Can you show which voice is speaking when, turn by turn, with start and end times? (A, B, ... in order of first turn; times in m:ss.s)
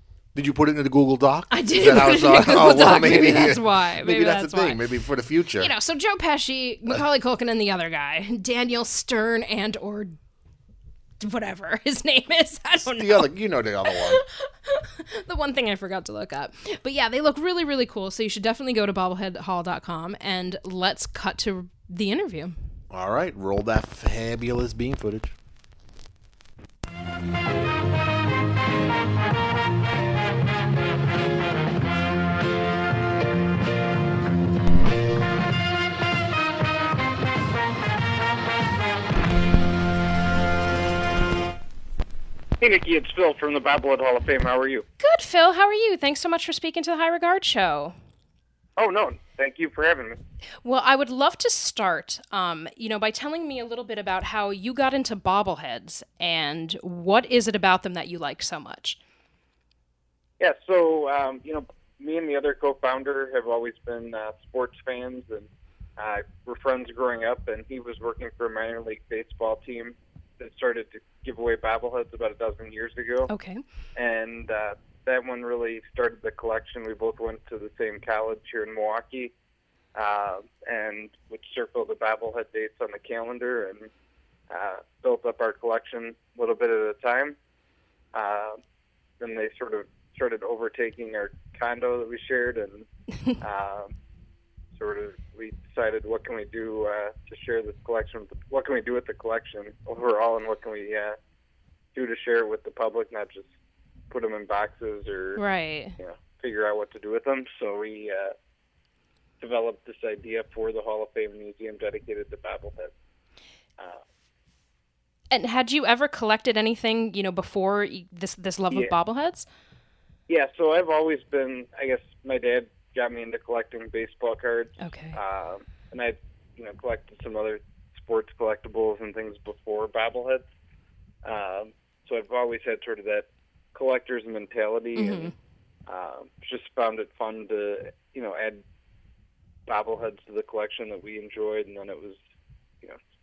0:00.4-0:05.7 A
0:01.5-0:04.8 B
0:05.6-0:10.2 B
0:11.2-0:13.3 B
0:12.8-0:14.2 A
0:13.9-0:22.6 B
0:22.9-0:25.4 A
0:42.6-0:44.8 C
0:45.0-0:48.0 B
0:48.8-0:50.2 C
0:50.6-0:59.0 B
1:00.4-1:13.3 C
1:13.3-1:13.6 B
1:14.0-1:19.3 C
1:20.0-1:23.9 C
1:24.5-1:27.4 C
1:28.1-1:28.6 C
1:29.2-1:32.9 C
1:33.4-1:33.9 C
1:34.8-1:41.2 C
1:42.0-1:43.5 C
1:44.1-1:45.4 C
1:45.4-1:46.0 B
1:46.0-1:48.4 C
1:49.4-1:52.9 C
1:55.3-1:59.5 B
2:00.3-2:10.5 C
2:04.8-2:05.2 B
2:11.2-2:15.3 C
2:15.0-2:15.3 B
2:15.9-2:18.6 C
2:19.7-2:22.2 C